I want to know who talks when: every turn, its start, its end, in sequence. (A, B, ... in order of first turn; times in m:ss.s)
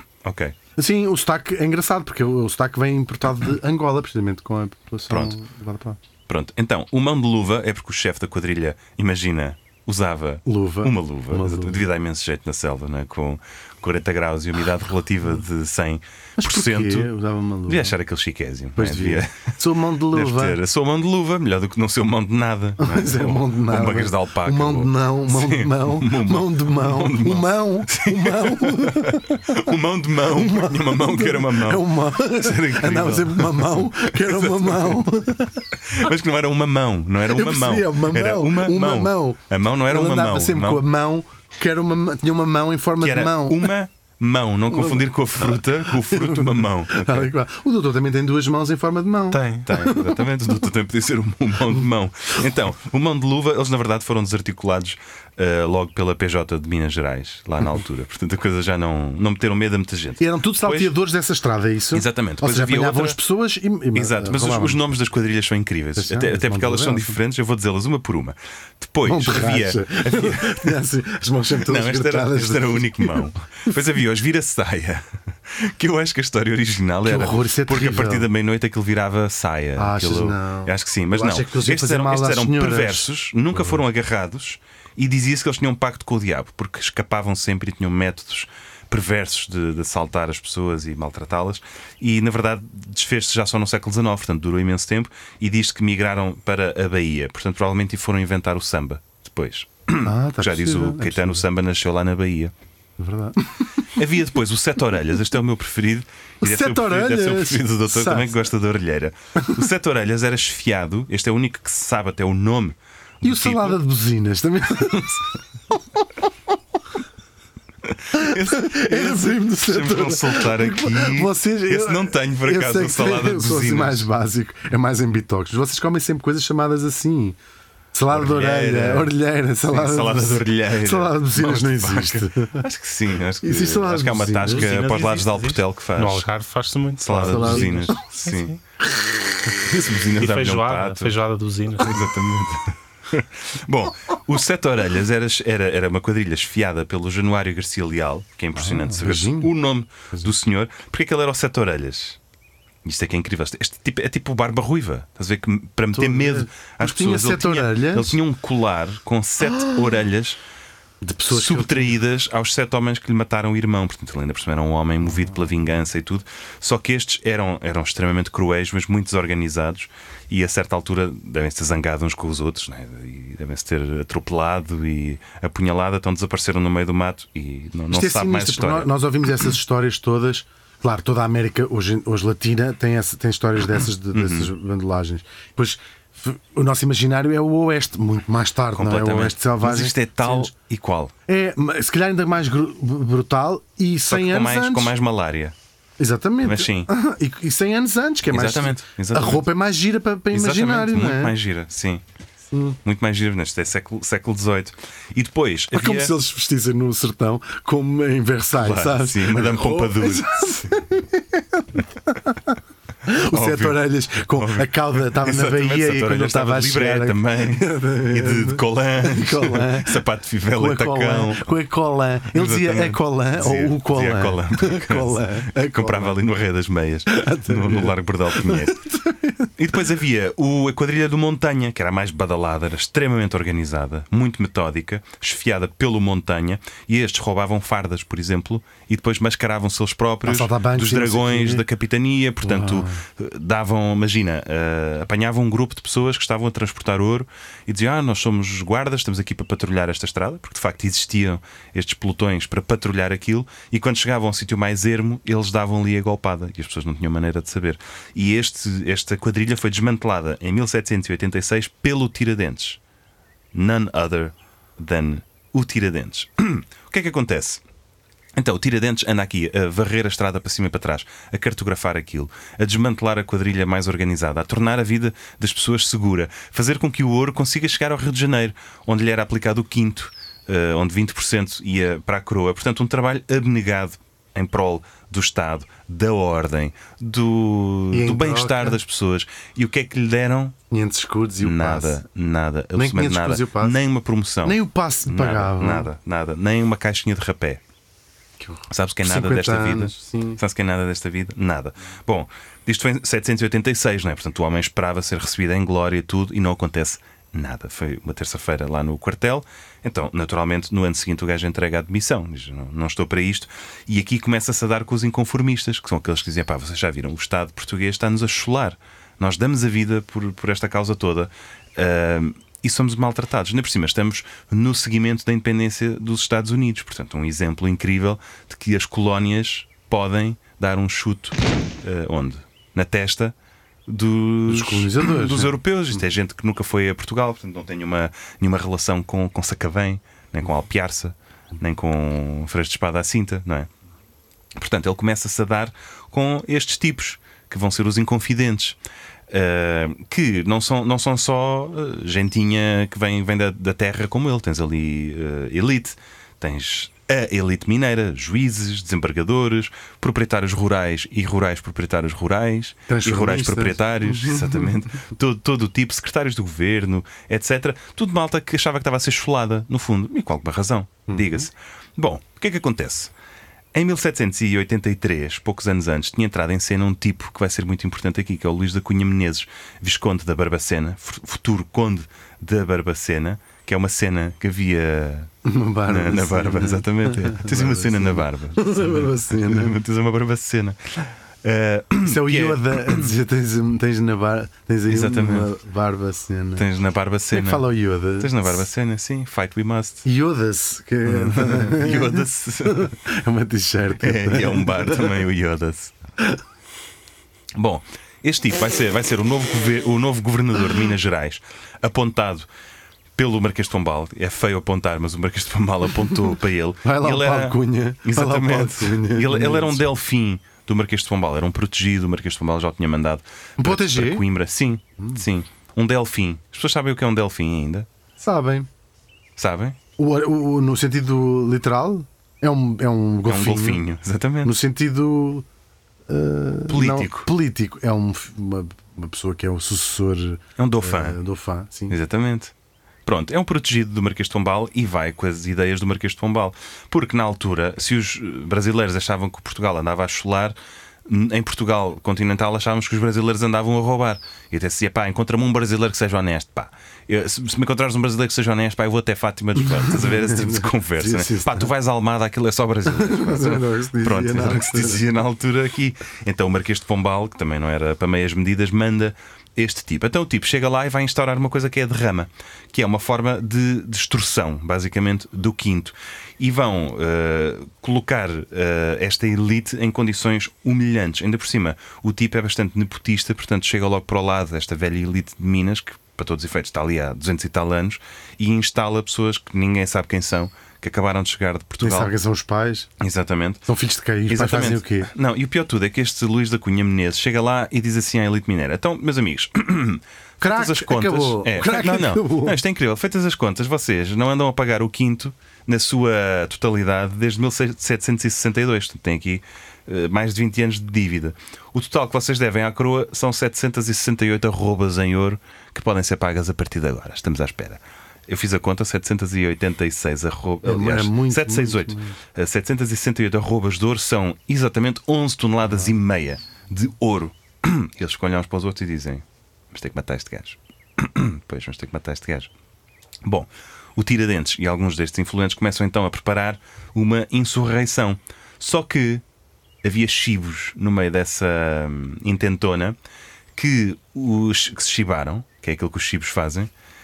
0:00.2-0:00.6 A
0:00.8-0:06.0 B
0:05.1-0:05.4 A
0:06.3-0:17.1 A
0:10.4-0:11.8 B
0:16.4-0:17.9 B
0:17.7-0:35.0 A
0:18.8-0:20.6 B
0:22.8-0:29.6 B
0:30.3-0:35.7 B
0:35.8-0:40.8 A
0:37.2-0:43.7 B
0:43.0-0:47.3 A
0:44.7-0:45.0 B
0:45.5-0:50.2 B
0:49.3-0:49.7 C
0:49.6-1:00.9 A
1:00.2-1:04.8 B
1:01.9-1:03.2 A
1:03.9-1:10.8 A
1:06.0-1:07.2 B
1:09.0-1:13.3 B
1:11.6-1:42.5 A
1:17.0-1:18.3 B
1:19.8-1:23.1 B
1:40.0-1:41.4 B
1:43.0-1:43.6 B
1:43.9-1:53.8 A
1:46.4-1:48.4 B
1:53.2-1:55.2 B
1:54.8-1:55.2 A
1:57.8-2:04.1 A
1:58.1-2:07.4 B
2:07.9-2:12.6 B
2:08.1-2:09.1 A
2:09.7-2:16.2 A
2:13.4-2:14.7 B
2:14.4-2:18.6 C
2:17.0-2:18.6 A
2:17.2-2:18.0 B
2:19.6-2:21.2 A
2:20.2-2:22.0 C
2:21.8-2:32.2 A
2:28.6-2:29.5 B
2:32.8-2:40.4 A
2:35.9-2:38.2 B
2:41.0-2:42.0 B
2:41.3-2:58.9 A
2:57.9-3:10.5 B
3:04.1-3:04.5 A
3:08.7-3:11.1 A
3:11.3-3:14.9 B
3:14.1-3:15.5 A
3:16.0-3:21.4 B
3:16.4-3:16.9 A
3:18.3-3:19.5 A
3:20.3-3:22.0 A
3:22.5-3:22.8 B
3:22.8-3:26.1 A
3:25.7-3:46.2 B
3:28.5-3:30.7 A
3:33.2-3:41.5 A
3:42.3-3:48.8 A
3:47.1-3:49.5 B
3:49.6-4:22.8 A
4:00.2-4:01.6 B
4:02.4-4:03.0 B
4:23.5-4:27.6 A
4:28.3-4:50.6 A
4:47.9-4:48.8 B
4:50.7-4:52.0 B
4:51.4-4:57.6 A
4:52.7-4:53.8 B
4:54.4-4:55.9 B
4:58.4-5:00.4 B
4:58.7-5:33.3 A
5:33.8-5:43.7 A
5:34.5-5:35.6 B
5:44.6-5:48.8 A
5:49.3-6:13.1 A
6:02.9-6:04.7 B
6:11.1-6:11.4 B
6:13.7-6:25.3 A
6:25.4-6:29.8 B
6:25.9-6:33.1 A
6:32.0-6:36.7 B
6:34.9-6:35.5 A
6:36.6-6:40.0 A
6:37.3-6:38.6 B
6:40.0-6:45.2 B
6:41.0-6:42.9 A
6:44.0-6:45.9 A
6:47.5-6:52.5 A
6:53.2-7:07.9 A
6:56.8-6:59.8 B
7:03.6-7:04.2 B
7:08.2-7:08.7 B
7:09.4-7:09.8 A
7:10.0-7:13.8 B
7:13.3-7:14.5 A
7:14.4-7:15.4 B
7:16.1-7:22.0 B
7:16.7-7:17.3 A
7:20.6-7:21.2 A
7:21.9-7:22.5 A
7:23.0-8:12.1 A
7:39.6-7:41.7 B
7:42.8-7:45.0 B
8:11.8-8:12.9 B
8:13.0-8:13.6 A
8:13.6-8:15.1 B
8:14.3-8:52.5 A
8:20.4-8:22.6 B
8:40.6-8:42.2 B
8:53.2-8:59.2 A
8:59.8-9:03.0 A
9:03.5-9:06.7 A